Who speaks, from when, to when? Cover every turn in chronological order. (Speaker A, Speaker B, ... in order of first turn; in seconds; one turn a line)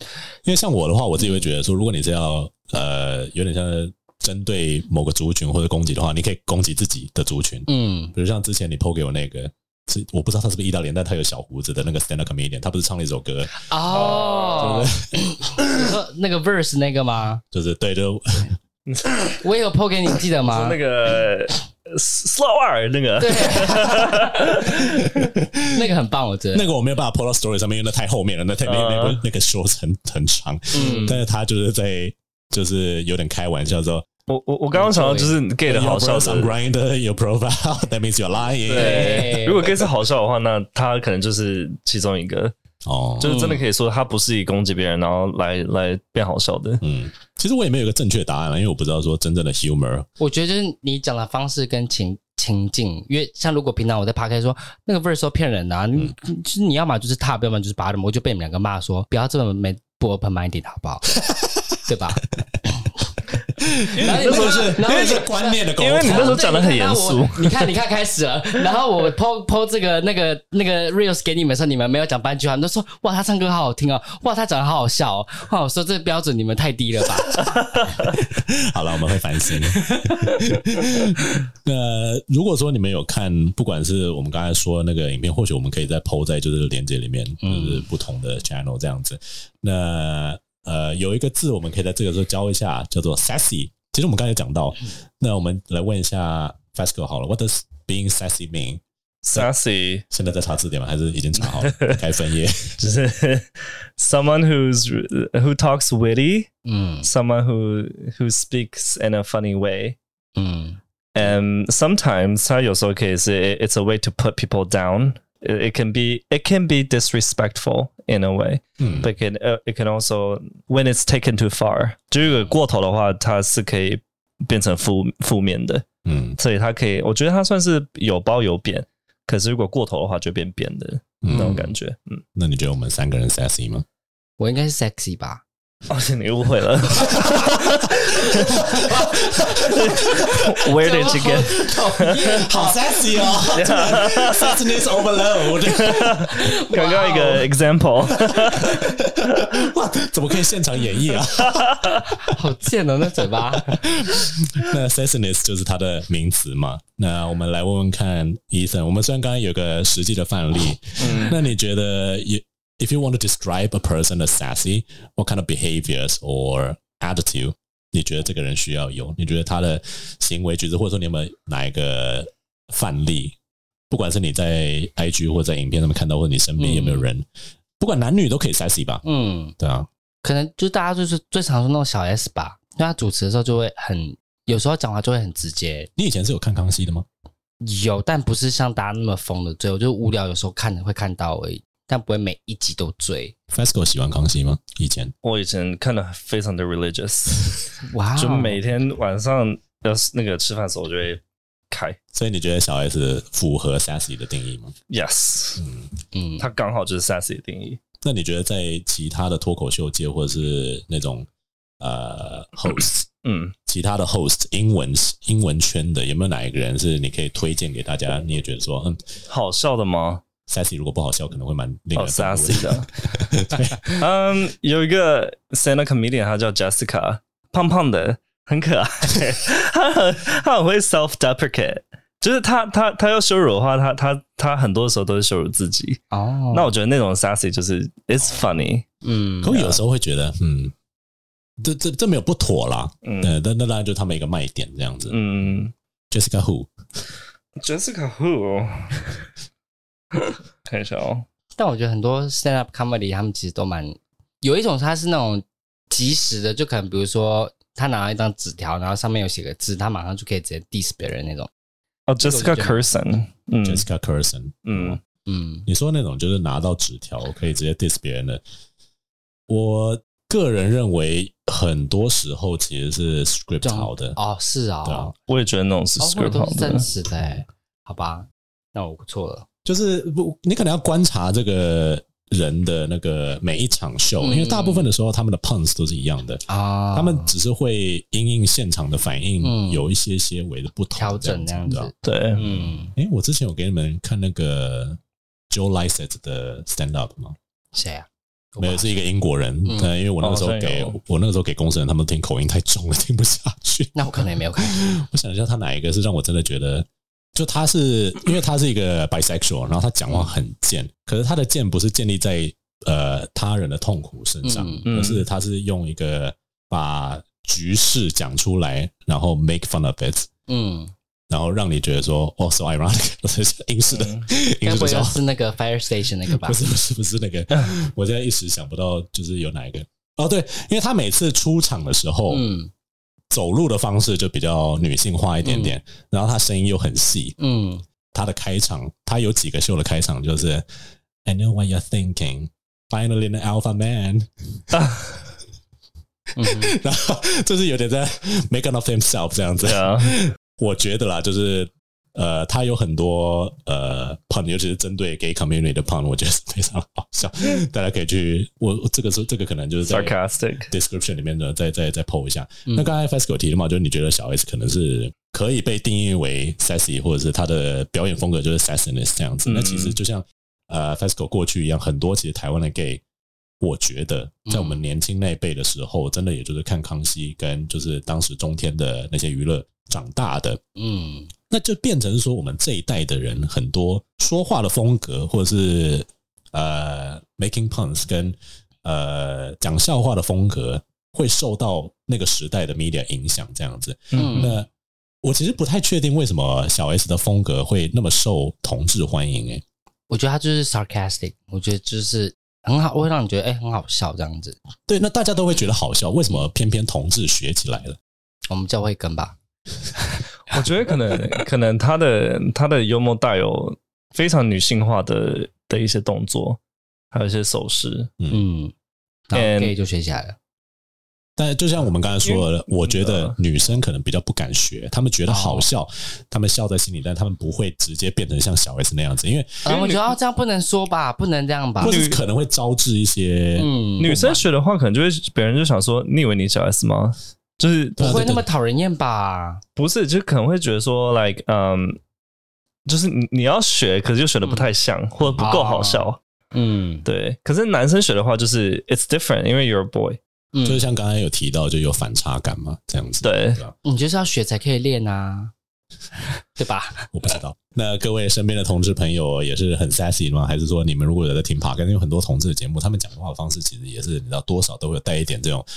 Speaker A: 0.4-15.9
Speaker B: 1.2-1.4
Speaker B: 7.7-8.1
Speaker B: 13.7-17.4
Speaker C: 13.9-14.9
Speaker A: 17.5-18.6
Speaker B: 19.3-20.8
Speaker C: 20.4-25.2
Speaker B: 23.2-24.8
Speaker A: 24.7-25.8
Speaker B: 25.7-26.7
Speaker A: 26.5-34.0
Speaker C: 28.6-29.2
Speaker B: 30.7-31.2
Speaker C: 30.7-31.2
Speaker C: 34.3-36.5
Speaker B: 34.7-35.4
Speaker A: 35.6-39.8
Speaker C: 38.6-42.5
Speaker B: 38.7-39.7
Speaker A: 42.8-43.3
Speaker C: 43.2-46.8
Speaker B: 43.2-43.6
Speaker A: 46.8-50.1
Speaker B: 50.2-61.1
Speaker A: 61.2-61.8
Speaker B: 61.9-62.3
Speaker A: 63.6-66.4
Speaker C: 63.9-65.2
Speaker B: 63.9-77.5
Speaker C: 65.8-67.7
Speaker C: 77.8-78.0
Speaker A: 78.0-99.5
Speaker B: 79.7-81.2
Speaker B: 87.4-87.9
Speaker C: 99.2-100.0
Speaker A: 100.1-102.8
Speaker C: 101.5-102.0
Speaker C: 102.8-106.5
Speaker B: 106.6-107.1
Speaker C: 107.0-110.0
Speaker B: 110.3-110.8
Speaker C: 111.1-132.2
Speaker A: 118.8-119.1
Speaker A: 126.0-126.4
Speaker A: 131.2-131.7
Speaker A: 132.3-133.8
Speaker B: 134.4-135.4
Speaker C: 135.9-138.8
Speaker A: 137.0-137.5
Speaker A: 138.2-140.7
Speaker B: 138.3-140.1
Speaker C: 139.6-142.4
Speaker B: 140.7-143.4
Speaker A: 141.3-146.3
Speaker C: 143.5-144.6
Speaker C: 145.7-149.4
Speaker B: 146.3-147.5
Speaker A: 148.3-152.4
Speaker C: 151.4-152.0
Speaker B: 152.0-153.8
Speaker A: 153.5-173.3
Speaker C: 161.0-161.4
Speaker A: 173.9-177.2
Speaker B: 176.6-177.1
Speaker A: 177.8-179.0
Speaker B: 179.0-179.5
Speaker A: 179.6-179.9
Speaker B: 180.2-185.9
Speaker A: 186.0-187.1
Speaker B: 187.6-193.3
Speaker A: 193.5-195.1
Speaker C: 195.2-202.0
Speaker B: 197.8-198.6
Speaker A: 202.1-204.7
Speaker C: 204.9-205.6
Speaker A: 205.6-205.9
Speaker B: 206.1-206.4
Speaker C: 206.4-207.8
Speaker A: 208.0-211.3
Speaker A: 211.8-213.1
Speaker C: 213.2-213.5
Speaker A: 213.7-219.0
Speaker C: 219.3-220.2
Speaker A: 220.5-224.0
Speaker C: 221.9-222.9
Speaker C: 223.9-236.0
Speaker B: 236.1-236.7
Speaker C: 236.5-238.8
Speaker B: 239.0-239.8
Speaker A: 239.4-240.7
Speaker A: 241.6-245.2
Speaker C: 243.0-243.3
Speaker C: 245.1-245.7
Speaker A: 246.1-246.7
Speaker C: 247.6-249.1
Speaker C: 250.3-251.2
Speaker B: 251.6-261.5
Speaker C: 262.1-263.9
Speaker B: 262.2-262.9
Speaker A: 263.6-265.0
Speaker C: 264.6-265.0
Speaker B: 265.2-265.7
Speaker A: 265.7-268.4
Speaker A: 269.5-274.2
Speaker B: 273.6-275.1
Speaker A: 274.8-275.1
Speaker C: 275.3-276.9
Speaker B: 276.0-279.5
Speaker A: 279.6-297.4
Speaker B: 284.2-284.9
Speaker B: 286.5-287.3
Speaker B: 289.4-289.8
Speaker B: 291.0-292.9
Speaker C: 292.0-292.4
Speaker B: 297.7-298.9
Speaker A: 298.6-320.3
Speaker B: 299.7-299.9
Speaker C: 300.2-301.0
Speaker B: 303.9-304.8
Speaker B: 310.1-310.3
Speaker B: 314.4-314.9
Speaker C: 314.9-315.2
Speaker B: 320.5-320.9
Speaker A: 321.3-325.2
Speaker C: 323.9-324.2
Speaker B: 324.6-326.6
Speaker A: 326.3-332.5
Speaker B: 332.3-332.7
Speaker A: 333.3-337.4
Speaker B: 335.4-335.8
Speaker B: 337.4-337.9
Speaker A: 338.1-340.6
Speaker A: 341.2-345.1
Speaker C: 344.7-345.0
Speaker B: 346.4-346.8
Speaker A: 346.4-360.1
Speaker C: 349.6-350.2
Speaker C: 359.9-360.7
Speaker A: 360.7-373.0
Speaker C: 369.4-370.0
Speaker A: 373.6-380.6
Speaker B: 374.4-374.8
Speaker B: 380.8-381.3
Speaker A: 381.5-394.7
Speaker C: 394.1-394.5
Speaker B: 394.1-394.6
Speaker A: 395.2-399.6
Speaker B: 400.1-404.6
Speaker A: 404.9-408.0
Speaker B: 408.5-409.3
Speaker B: 409.9-410.6
Speaker C: 410.5-416.6
Speaker C: 417.1-418.1
Speaker B: 418.3-418.7
Speaker B: 419.3-420.4
Speaker C: 419.3-419.7
Speaker A: 421.4-429.6
Speaker C: 422.2-423.4
Speaker B: 425.3-425.7
Speaker C: 429.6-430.1
Speaker B: 429.6-432.0
Speaker A: 431.8-434.4
Speaker C: 431.8-432.2
Speaker B: 433.6-434.4
Speaker C: 434.0-438.3
Speaker A: 438.0-438.4
Speaker B: 438.0-439.6
Speaker C: 439.8-442.0
Speaker C: 442.9-446.2
Speaker B: 444.4-444.7
Speaker A: 445.2-445.5
Speaker B: 445.4-447.1
Speaker C: 447.0-450.2
Speaker B: 450.5-450.8
Speaker A: 450.6-453.8
Speaker C: 453.2-453.6
Speaker B: 453.8-455.5
Speaker B: 456.2-457.3
Speaker A: 457.1-465.6